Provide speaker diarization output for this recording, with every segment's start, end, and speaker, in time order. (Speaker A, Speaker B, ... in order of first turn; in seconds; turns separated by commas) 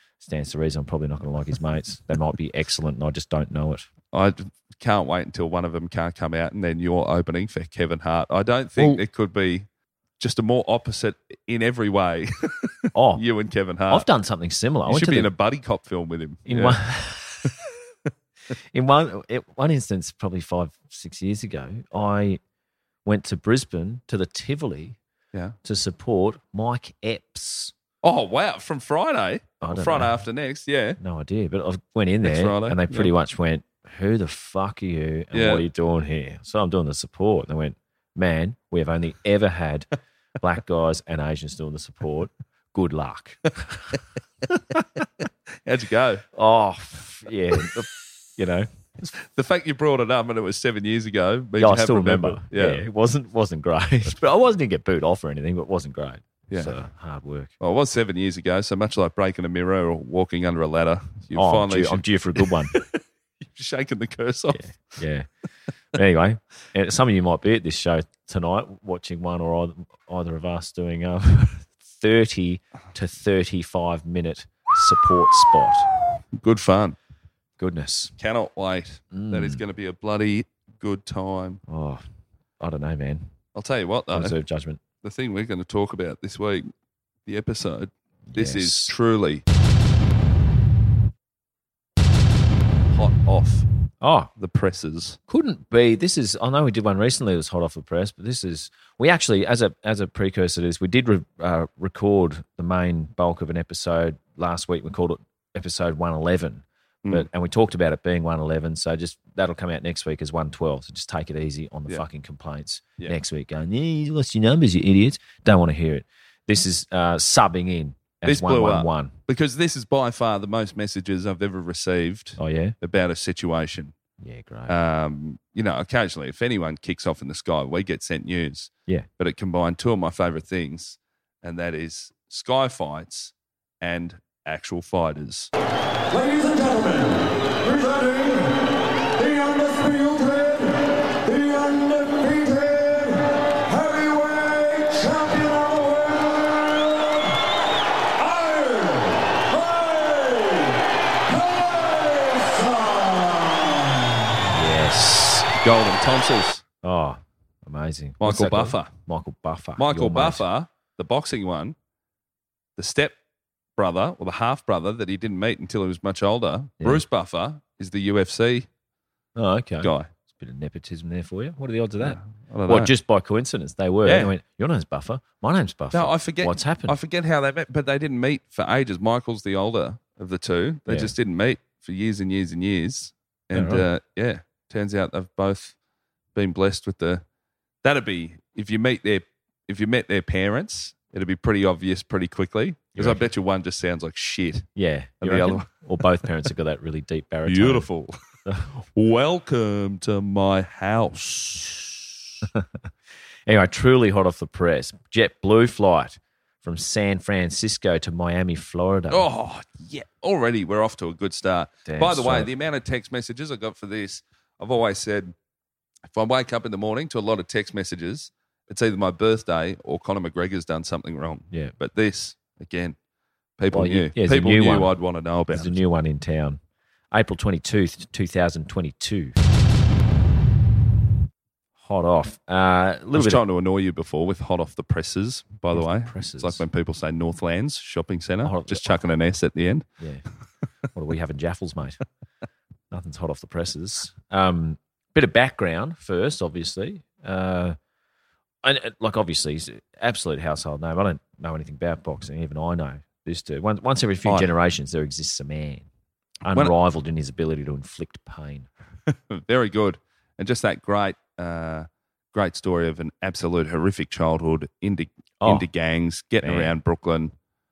Speaker A: 0.2-3.9, Speaker B: 4.1-9.7, Speaker A: 8.8-9.0, Speaker B: 10.2-14.1, Speaker A: 12.9-13.2, Speaker A: 13.9-15.3, Speaker B: 14.9-16.8, Speaker A: 16.4-17.5, Speaker A: 18.7-22.4, Speaker A: 23.0-25.0, Speaker A: 25.6-27.7, Speaker B: 28.0-31.0, Speaker A: 29.6-30.2, Speaker A: 31.0-43.5, Speaker B: 32.2-33.1, Speaker B: 35.3-35.6, Speaker B: 45.6-46.2, Speaker A: 46.3-49.1, Speaker B: 49.2-52.8, Speaker A: 51.6-57.5, Speaker B: 56.5-56.8, Speaker B: 57.6-64.7, Speaker A: 61.3-62.8, Speaker A: 64.5-65.3, Speaker A: 65.9-75.9, Speaker B: 76.3-77.0, Speaker A: 77.6-78.1, Speaker B: 78.2-81.6, Speaker A: 79.1-79.6, Speaker A: 81.7-82.0, Speaker A: 82.6-83.3, Speaker B: 83.5-84.4, Speaker A: 84.1-84.8, Speaker B: 85.0-86.7, Speaker B: 87.2-89.4, Speaker A: 88.3-88.9, Speaker B: 92.9-93.7, Speaker A: 94.0-94.3, Speaker B: 94.4-95.2, Speaker A: 95.3-119.2, Speaker B: 118.2-123.9, Speaker A: 122.4-122.8, Speaker A: 124.2-124.8, Speaker B: 124.7-135.5, Speaker C: 136.1-138.5, Speaker C: 139.2-146.8, Speaker C: 148.5-148.9, Speaker C: 149.6-150.5, Speaker C: 151.7-153.1, Speaker A: 154.5-155.5, Speaker B: 155.6-156.6, Speaker A: 156.8-160.4, Speaker B: 158.2-158.9, Speaker B: 159.8-161.7, Speaker B: 162.8-163.2, Speaker B: 163.8-168.7, Speaker A: 169.3-177.0, Speaker B: 169.8-170.1, Speaker B: 172.0-172.9, Speaker B: 174.0-174.3, Speaker B: 175.9-185.8, Speaker A: 180.9-181.1, Speaker A: 183.5-183.8, Speaker B: 186.3-187.2, Speaker B: 187.8-194.7, Speaker A: 192.9-193.2, Speaker A: 194.8-197.9, Speaker B: 195.2-196.0, Speaker B: 197.4-198.1, Speaker A: 198.4-198.7, Speaker B: 198.9-202.1, Speaker A: 203.5-209.3, Speaker B: 209.1-215.3, Speaker A: 211.8-212.5, Speaker B: 216.1-223.0, Speaker B: 223.6-225.8, Speaker A: 223.7-224.9, Speaker A: 225.5-226.6, Speaker A: 227.1-229.4, Speaker A: 231.8-233.4, Speaker B: 233.1-239.8, Speaker A: 235.7-236.6, Speaker A: 238.4-239.0, Speaker A: 240.0-240.2, Speaker A: 240.9-242.0, Speaker A: 242.9-247.8, Speaker A: 248.6-255.9, Speaker B: 254.2-254.5, Speaker A: 256.4-258.7, Speaker B: 259.1-267.3, Speaker A: 265.4-265.6, Speaker A: 266.4-266.7